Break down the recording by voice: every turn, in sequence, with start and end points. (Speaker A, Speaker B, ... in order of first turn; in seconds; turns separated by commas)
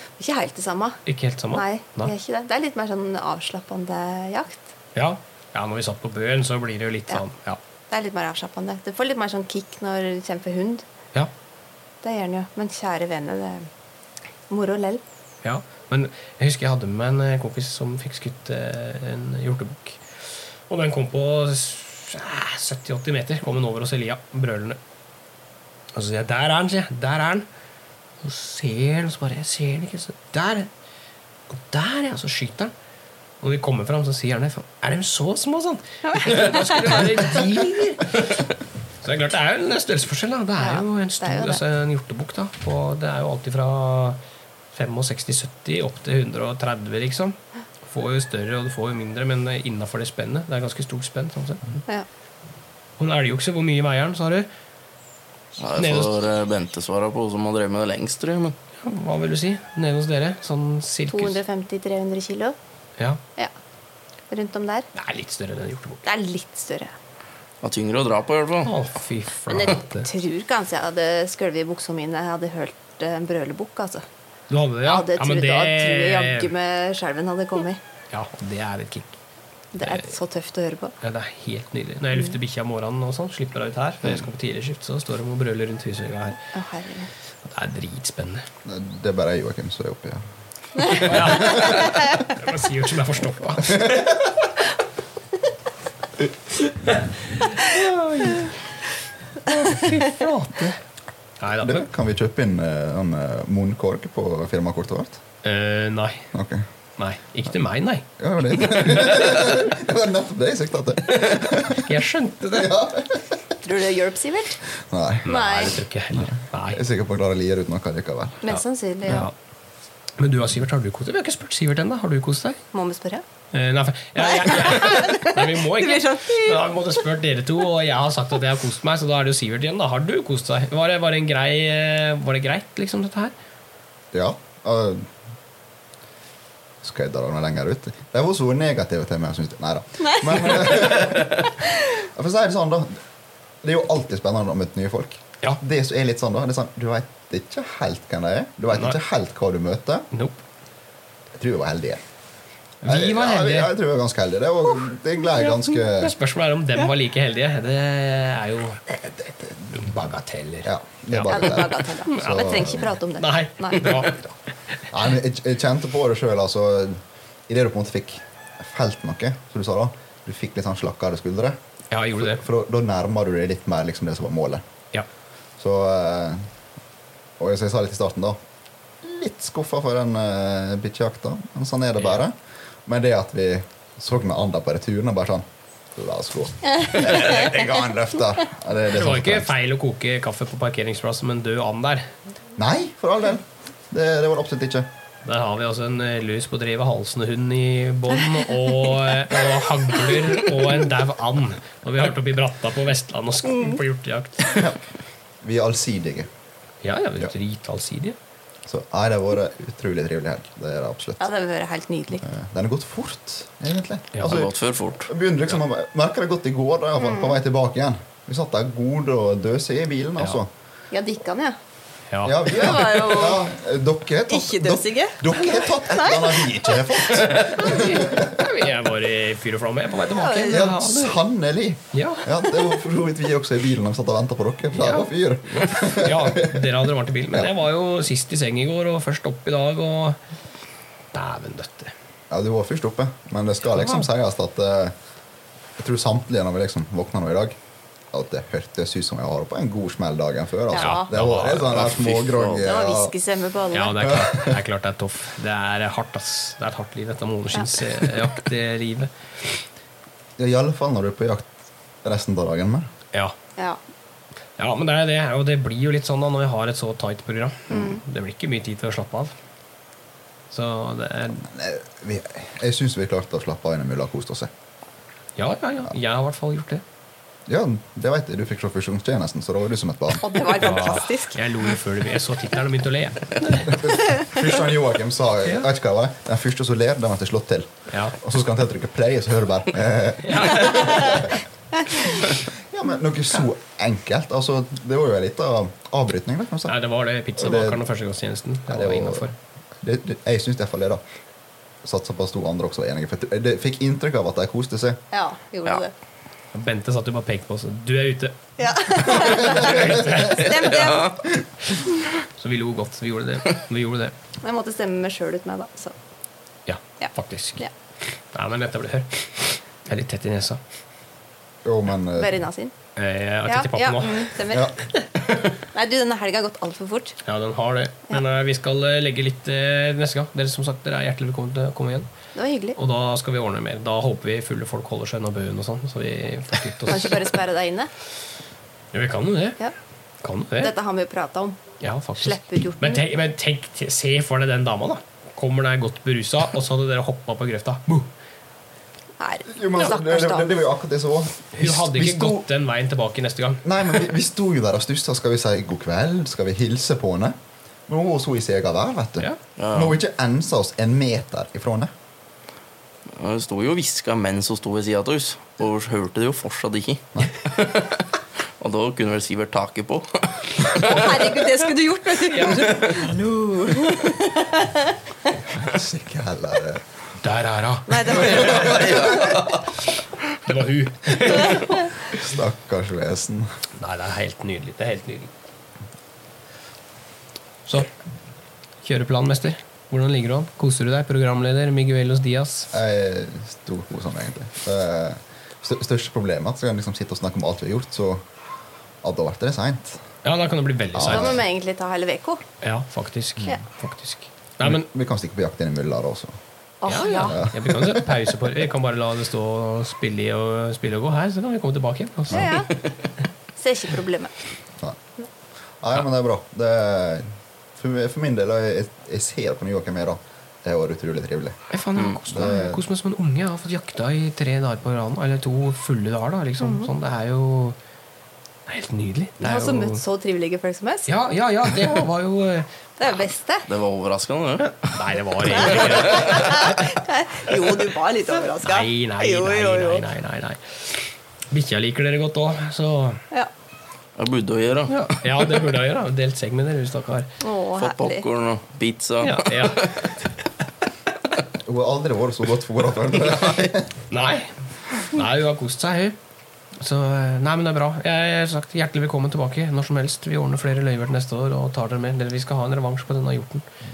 Speaker A: 0.2-1.0, Speaker B: 1.1-2.1, Speaker A: 1.5-4.6, Speaker B: 5.0-7.6, Speaker A: 7.9-10.9, Speaker A: 12.0-13.7, Speaker A: 14.5-15.0, Speaker B: 15.4-20.2, Speaker B: 20.7-24.8, Speaker B: 25.9-27.5, Speaker B: 28.2-30.7, Speaker B: 31.5-32.7, Speaker B: 33.4-38.4, Speaker A: 36.1-37.0, Speaker B: 39.0-44.2, Speaker A: 40.6-41.6, Speaker B: 44.7-51.8, Speaker B: 53.0-54.5, Speaker C: 55.6-58.6, Speaker B: 55.8-56.2, Speaker B: 58.8-61.4, Speaker A: 61.1-62.6, Speaker A: 64.3-64.9, Speaker B: 65.0-66.0, Speaker A: 66.0-66.9, Speaker C: 67.6-68.7, Speaker B: 68.7-70.1, Speaker A: 69.5-74.0, Speaker B: 74.5-76.5, Speaker A: 74.8-77.8, Speaker B: 78.1-79.2, Speaker A: 79.7-81.0, Speaker B: 79.8-80.1, Speaker B: 81.0-86.4, Speaker A: 86.5-87.1, Speaker B: 87.5-88.5, Speaker D: 88.7-90.2, Speaker A: 90.8-92.0, Speaker B: 90.9-94.2, Speaker D: 90.9-91.8, Speaker D: 93.7-94.1, Speaker B: 96.7-98.6, Speaker B: 99.5-100.8, Speaker B: 101.4-101.8, Speaker D: 101.6-105.2, Speaker B: 105.4-106.3, Speaker D: 106.3-106.7, Speaker B: 107.0-108.1, Speaker D: 108.2-111.9, Speaker B: 111.2-112.8, Speaker D: 112.5-113.5, Speaker A: 113.6-114.6, Speaker D: 114.9-115.3, Speaker A: 115.2-115.8, Speaker B: 115.2-116.8, Speaker D: 116.2-118.5, Speaker A: 118.4-119.3, Speaker B: 118.5-119.3, Speaker B: 120.2-122.6, Speaker A: 122.7-123.2, Speaker B: 123.5-133.3, Speaker A: 124.2-126.8, Speaker D: 134.1-135.1, Speaker D: 136.8-143.0, Speaker A: 140.1-140.9, Speaker D: 143.6-150.1, Speaker B: 150.1-150.4, Speaker D: 151.4-152.0, Speaker B: 152.8-153.7, Speaker D: 152.8-156.2, Speaker B: 155.9-158.9, Speaker D: 159.2-159.7, Speaker B: 159.7-164.8, Speaker D: 160.6-163.0, Speaker A: 161.3-164.2, Speaker D: 164.9-171.6, Speaker B: 171.9-172.4, Speaker D: 172.2-174.6, Speaker D: 175.6-176.5, Speaker D: 177.4-178.4, Speaker D: 179.0-182.3, Speaker D: 182.9-189.5, Speaker A: 186.8-187.5, Speaker B: 188.9-192.1, Speaker D: 192.6-194.9, Speaker B: 195.2-204.6, Speaker A: 203.5-203.8, Speaker D: 205.4-206.3, Speaker B: 206.8-208.2, Speaker D: 208.7-211.3, Speaker A: 211.2-212.3, Speaker D: 212.2-220.5, Speaker C: 214.2-215.1, Speaker A: 217.0-217.4, Speaker A: 220.9-221.6, Speaker B: 222.1-222.6, Speaker D: 222.2-228.5, Speaker A: 222.5-223.5, Speaker A: 224.3-226.8, Speaker B: 227.3-231.2, Speaker A: 227.7-227.9, Speaker A: 230.1-230.7, Speaker D: 230.4-236.7, Speaker B: 231.9-232.3, Speaker B: 234.7-240.2, Speaker B: 241.1-241.9, Speaker D: 242.3-245.0, Speaker B: 243.7-244.1, Speaker D: 245.8-247.6, Speaker D: 248.1-253.1, Speaker A: 250.7-251.1, Speaker B: 250.8-251.9, Speaker C: 251.6-252.7, Speaker A: 252.6-254.2, Speaker B: 253.7-259.1, Speaker D: 254.0-254.6, Speaker D: 260.4-262.9, Speaker B: 264.6-269.3, Speaker A: 267.7-268.0, Speaker B: 270.5-271.4, Speaker D: 271.4-274.5, Speaker B: 275.4-276.8, Speaker D: 277.5-280.4, Speaker A: 280.2-281.4, Speaker B: 280.6-283.8, Speaker D: 283.5-291.4, Speaker B: 287.9-288.2, Speaker B: 290.2-291.2, Speaker D: 292.0-296.8, Speaker B: 296.7-299.4, Speaker D: 297.4-297.8, Speaker D: 298.7-299.3, Speaker D: 299.8-301.0, Speaker D: 301.8-305.0, Speaker A: 305.1-305.9, Speaker B: 306.5-310.7, Speaker A: 308.6-311.2, Speaker D: 309.4-310.0, Speaker C: 310.4-311.2, Speaker B: 312.4-314.1, Speaker A: 314.4-315.9, Speaker B: 316.7-317.6, Speaker A: 317.0-317.7, Speaker B: 318.3-320.6, Speaker D: 321.6-322.3, Speaker A: 322.2-322.7, Speaker B: 323.0-324.4, Speaker A: 323.5-324.7, Speaker D: 324.5-324.8, Speaker A: 325.7-327.2, Speaker B: 327.2-332.1, Speaker A: 332.4-332.8, Speaker B: 332.8-337.3, Speaker A: 336.9-337.9, Speaker B: 338.9-339.6, Speaker B: 340.2-340.7, Speaker A: 340.6-341.6, Speaker B: 341.8-348.1, Speaker A: 342.2-343.0, Speaker A: 349.2-350.5, Speaker D: 349.5-352.5, Speaker B: 351.5-353.7, Speaker D: 353.6-357.4, Speaker D: 357.9-361.9, Speaker C: 359.6-360.0, Speaker C: 363.2-368.0, Speaker C: 368.6-371.4, Speaker A: 370.8-374.9, Speaker B: 372.3-373.1, Speaker D: 375.4-376.8, Speaker B: 377.2-379.1, Speaker A: 377.9-379.3, Speaker D: 378.3-379.2, Speaker C: 378.7-379.2, Speaker B: 380.4-381.9, Speaker D: 382.0-383.5, Speaker B: 383.8-385.3, Speaker B: 388.8-392.7, Speaker D: 392.7-398.3, Speaker D: 399.0-400.0, Speaker B: 400.2-401.4, Speaker D: 400.9-401.4, Speaker A: 401.0-402.4, Speaker B: 402.6-404.9, Speaker D: 404.6-406.3, Speaker A: 406.8-407.4, Speaker B: 406.9-412.7, Speaker D: 407.1-408.3, Speaker D: 412.3-412.6, Speaker A: 412.3-412.7, Speaker A: 413.6-414.3, Speaker D: 415.8-421.6, Speaker B: 421.7-427.8, Speaker D: 422.3-422.8, Speaker A: 426.6-426.9, Speaker B: 428.7-430.0, Speaker A: 429.4-431.1, Speaker B: 431.1-432.7, Speaker A: 433.0-433.7, Speaker C: 433.7-436.5, Speaker B: 434.6-437.0, Speaker A: 435.6-440.1, Speaker B: 438.3-443.2, Speaker C: 444.2-445.7, Speaker B: 444.9-447.3, Speaker A: 447.4-448.2, Speaker C: 447.8-449.9, Speaker B: 449.2-450.4, Speaker D: 451.6-453.9, Speaker B: 454.1-456.2, Speaker B: 456.8-463.7